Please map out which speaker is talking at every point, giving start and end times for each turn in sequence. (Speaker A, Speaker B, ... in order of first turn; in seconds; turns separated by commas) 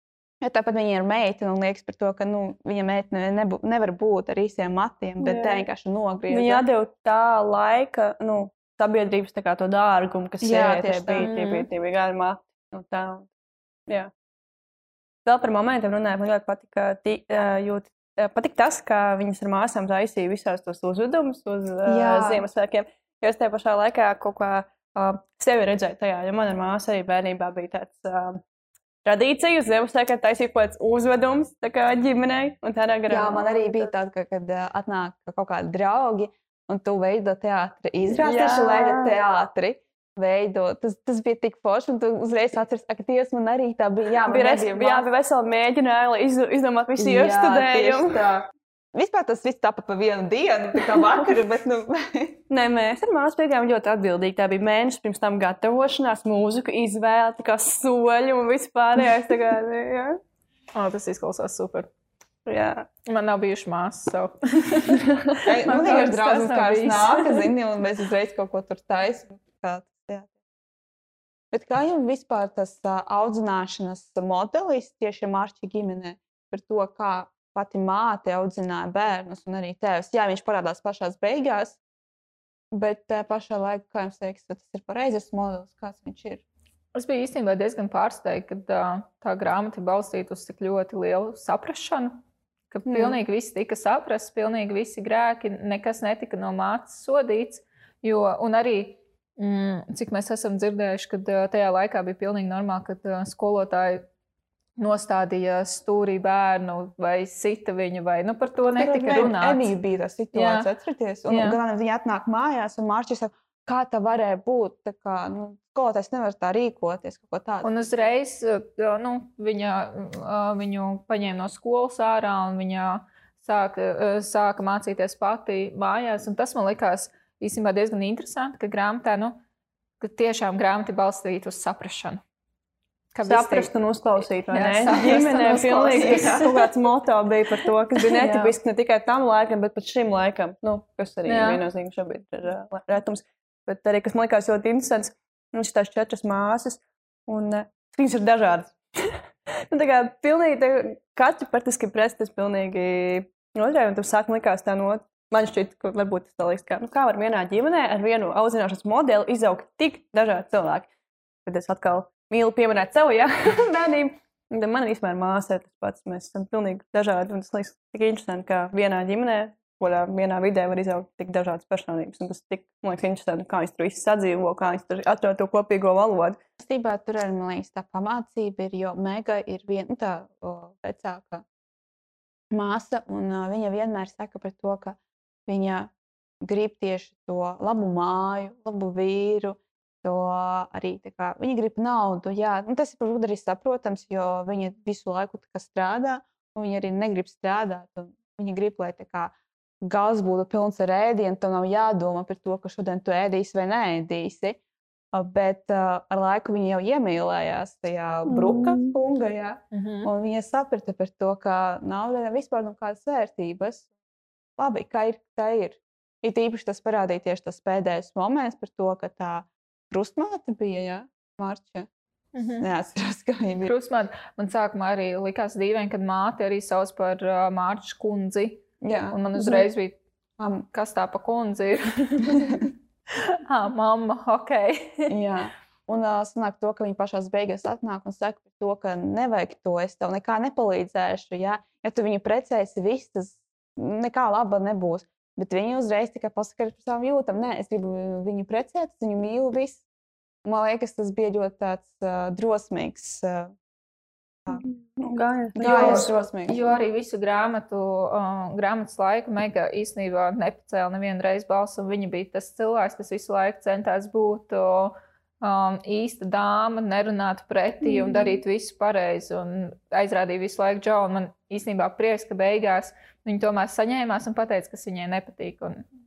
Speaker A: 0.4-6.6, Speaker B: 5.2-5.6, Speaker B: 6.3-13.3, Speaker A: 10.4-11.3, Speaker C: 11.2-11.7, Speaker B: 15.2-28.4, Speaker A: 21.9-22.4, Speaker B: 29.0-33.5, Speaker A: 33.1-45.1, Speaker B: 38.1-39.1, Speaker B: 44.2-48.2, Speaker A: 47.0-52.4, Speaker B: 52.5-60.2, Speaker C: 60.7-61.9, Speaker B: 62.5-62.9, Speaker C: 63.0-67.5, Speaker A: 65.5-70.3, Speaker A: 71.5-81.8, Speaker A: 82.7-86.4, Speaker C: 86.9-92.2, Speaker C: 92.7-104.0, Speaker A: 92.8-93.2, Speaker C: 104.8-109.7, Speaker A: 108.7-117.7, Speaker C: 110.3-110.7, Speaker C: 111.3-111.6, Speaker C: 117.6-129.4, Speaker C: 130.0-132.2, Speaker C: 133.1-133.7, Speaker B: 133.2-160.9, Speaker C: 134.5-136.5, Speaker A: 135.4-136.5, Speaker C: 138.2-138.5, Speaker C: 141.2-141.6, Speaker B: 161.4-176.4, Speaker A: 176.6-181.4, Speaker A: 182.5-204.6, Speaker A: 205.1-213.9, Speaker B: 208.3-209.0, Speaker C: 209.7-210.1, Speaker A: 214.6-221.9, Speaker C: 222.3-222.7, Speaker A: 222.6-223.7, Speaker C: 223.7-230.0, Speaker A: 228.8-229.2, Speaker A: 230.4-230.7, Speaker C: 230.7-232.6, Speaker A: 232.3-232.7, Speaker C: 233.2-235.1, Speaker A: 235.1-249.8, Speaker A: 250.4-253.5, Speaker B: 254.5-256.1, Speaker A: 255.6-256.7, Speaker C: 255.6-275.8, Speaker A: 267.9-268.2